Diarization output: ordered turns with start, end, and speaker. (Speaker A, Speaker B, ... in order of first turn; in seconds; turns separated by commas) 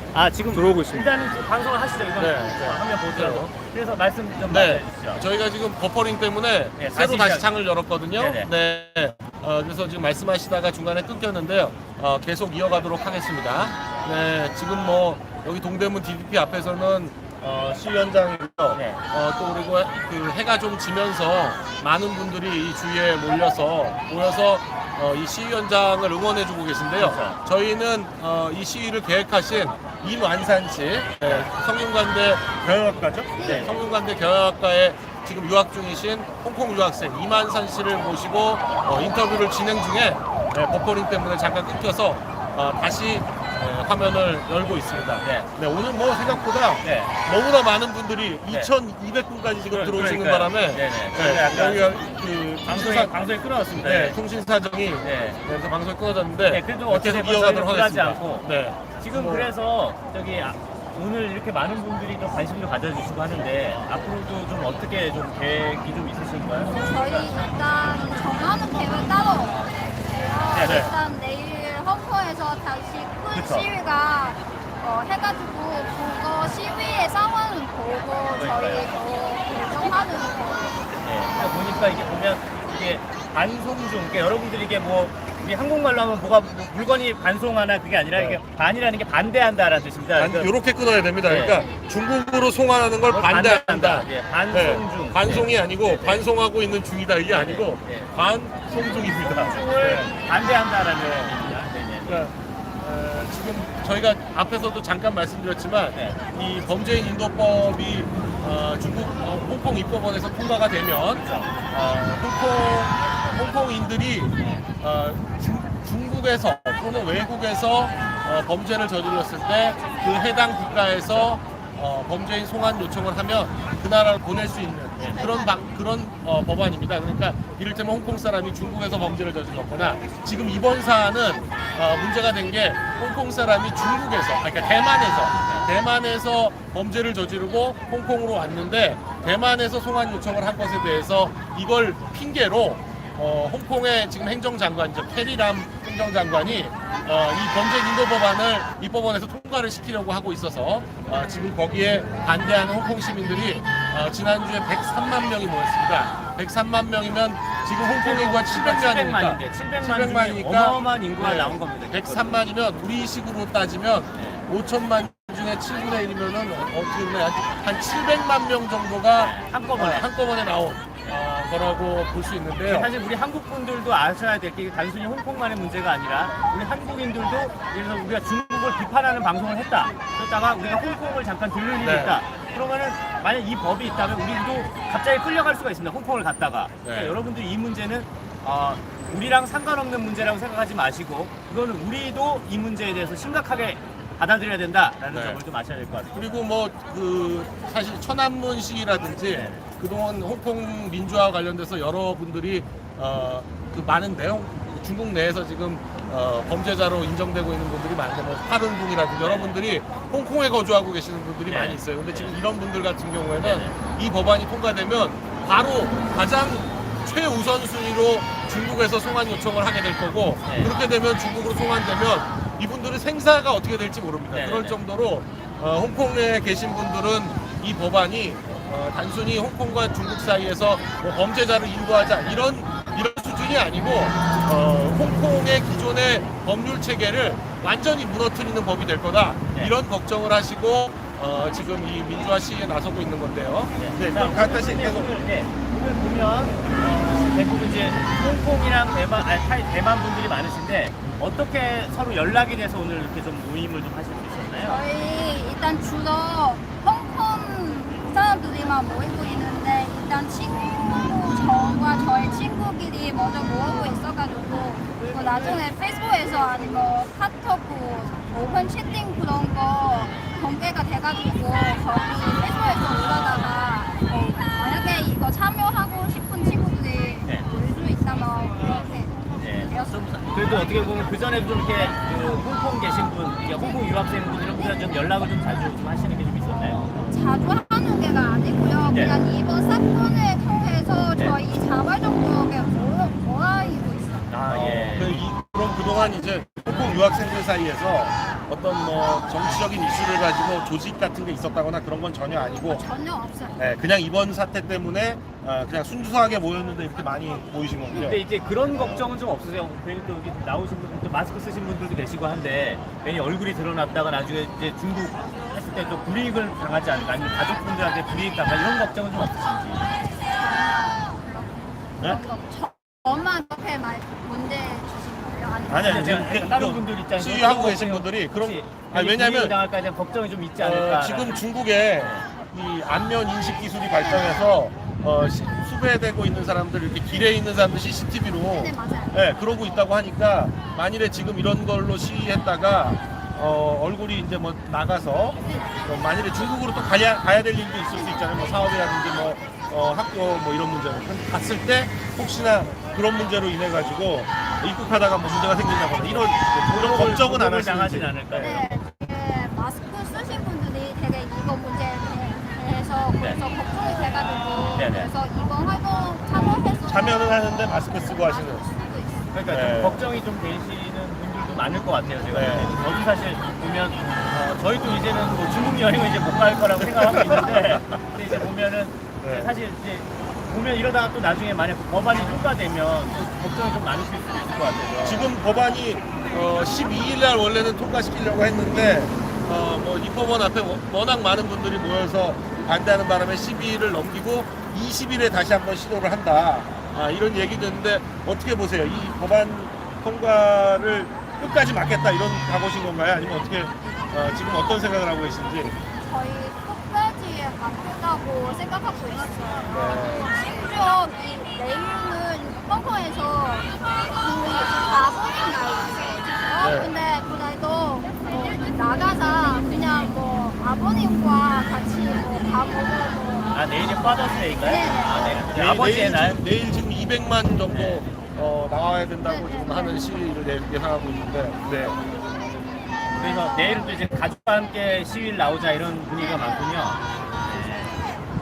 Speaker A: 0.1-5.2, Speaker B: 0.5-1.1, Speaker B: 2.2-3.5, Speaker B: 4.5-53.2, Speaker A: 6.8-7.5, Speaker A: 8.2-8.5, Speaker A: 18.7-19.0, Speaker A: 27.0-27.4, Speaker A: 31.2-31.5, Speaker A: 33.4-33.8, Speaker A: 45.2-45.5, Speaker A: 46.3-47.1, Speaker A: 49.7-51.9, Speaker A: 52.6-54.2, Speaker B: 53.8-59.5, Speaker A: 55.0-55.4, Speaker A: 56.5-58.5, Speaker A: 59.0-67.3, Speaker C: 66.6-80.8, Speaker A: 70.5-70.9, Speaker B: 70.6-70.9, Speaker A: 73.3-73.7, Speaker A: 78.4-78.9, Speaker A: 81.0-90.5, Speaker B: 88.1-88.4, Speaker B: 90.2-100.2, Speaker A: 91.2-91.7, Speaker A: 93.1-96.3, Speaker A: 97.3-98.1, Speaker A: 99.0-102.2, Speaker B: 101.0-101.3, Speaker B: 102.1-172.9, Speaker A: 105.9-106.2, Speaker A: 111.2-111.5, Speaker A: 114.4-114.7, Speaker A: 125.0-125.3, Speaker A: 157.9-162.4, Speaker A: 164.2-164.4, Speaker A: 169.2-170.1, Speaker A: 172.6-196.2, Speaker B: 181.8-182.2, Speaker B: 186.8-187.2, Speaker B: 195.1-195.4, Speaker B: 196.1-245.1, Speaker A: 199.3-199.6, Speaker A: 209.2-209.6, Speaker A: 211.5-212.4, Speaker A: 213.4-213.8, Speaker A: 220.5-220.7, Speaker A: 224.3-224.8, Speaker A: 243.8-254.8, Speaker C: 254.6-280.6, Speaker A: 265.0-265.6, Speaker A: 266.3-266.9, Speaker A: 279.4-279.7, Speaker A: 280.3-287.0, Speaker C: 286.5-294.3, Speaker A: 288.9-289.2, Speaker A: 294.3-295.2, Speaker B: 294.5-302.8, Speaker C: 302.3-303.7, Speaker B: 303.6-309.1, Speaker A: 307.9-319.8, Speaker C: 319.9-326.1, Speaker B: 325.7-329.6, Speaker A: 325.8-331.4, Speaker B: 330.6-358.7, Speaker A: 332.0-332.3, Speaker C: 333.9-334.6, Speaker C: 338.5-339.1, Speaker A: 356.0-358.7, Speaker C: 358.4-369.3, Speaker A: 364.8-365.1, Speaker B: 366.8-368.6, Speaker A: 369.3-385.3, Speaker B: 369.5-370.1, Speaker B: 372.3-372.7, Speaker B: 377.0-378.4, Speaker B: 379.2-379.6, Speaker B: 385.0-405.8, Speaker C: 406.0-423.8, Speaker B: 409.7-410.3, Speaker B: 416.6-416.9, Speaker A: 423.5-426.4, Speaker C: 424.5-425.5, Speaker B: 425.2-432.0, Speaker A: 427.7-428.1, Speaker C: 429.2-430.1, Speaker A: 433.2-437.9